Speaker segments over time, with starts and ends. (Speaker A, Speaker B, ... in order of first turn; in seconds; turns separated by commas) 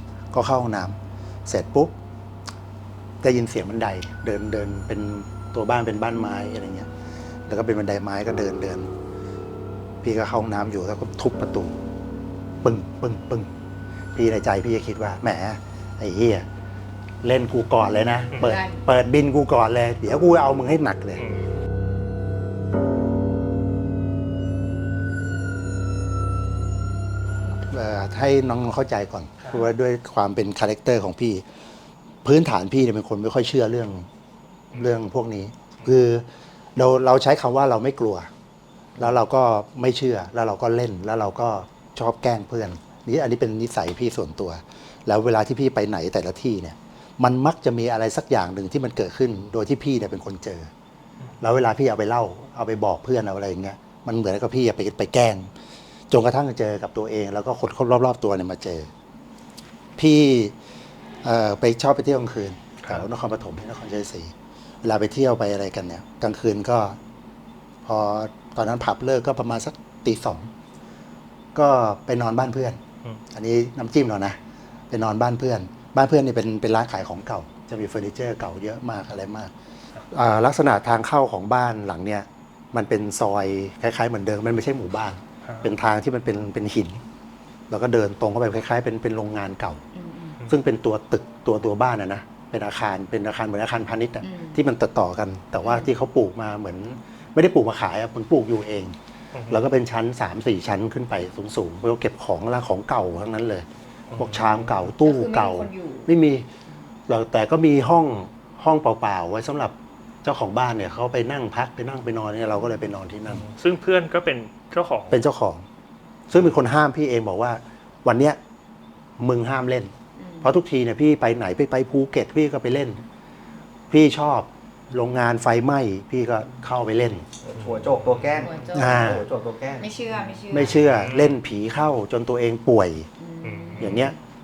Speaker A: 0.3-1.9, Speaker A: 3.2-6.9, Speaker A: 7.5-8.9, Speaker A: 10.0-11.8, Speaker A: 12.6-13.5, Speaker A: 14.2-16.5, Speaker A: 17.2-21.3, Speaker B: 18.4-18.8, Speaker A: 27.6-31.4, Speaker A: 32.2-34.1, Speaker A: 34.7-38.3, Speaker A: 39.0-50.7, Speaker A: 51.4-55.5, Speaker A: 56.1-58.9, Speaker A: 60.0-60.5, Speaker A: 61.2-67.0, Speaker A: 67.8-70.5, Speaker A: 71.5-72.8, Speaker A: 73.3-74.4, Speaker A: 74.9-79.5, Speaker A: 80.1-87.0, Speaker A: 87.7-89.8, Speaker B: 89.9-90.4, Speaker A: 90.5-99.0, Speaker B: 94.2-94.6, Speaker B: 95.6-95.9, Speaker C: 99.3-99.6, Speaker A: 99.5-106.5, Speaker C: 104.1-104.9, Speaker B: 105.0-106.1, Speaker A: 107.1-113.5, Speaker C: 113.4-115.2, Speaker A: 115.1-115.7, Speaker A: 116.3-118.4, Speaker A: 119.2-123.0, Speaker B: 120.2-120.5, Speaker A: 123.9-127.3, Speaker D: 127.4-129.9, Speaker C: 127.8-128.2, Speaker B: 128.4-129.2, Speaker A: 128.7-129.2, Speaker B: 129.8-130.8, Speaker A: 130.5-133.1, Speaker C: 131.0-131.4, Speaker B: 133.2-134.1, Speaker C: 133.4-134.1, Speaker A: 133.8-134.2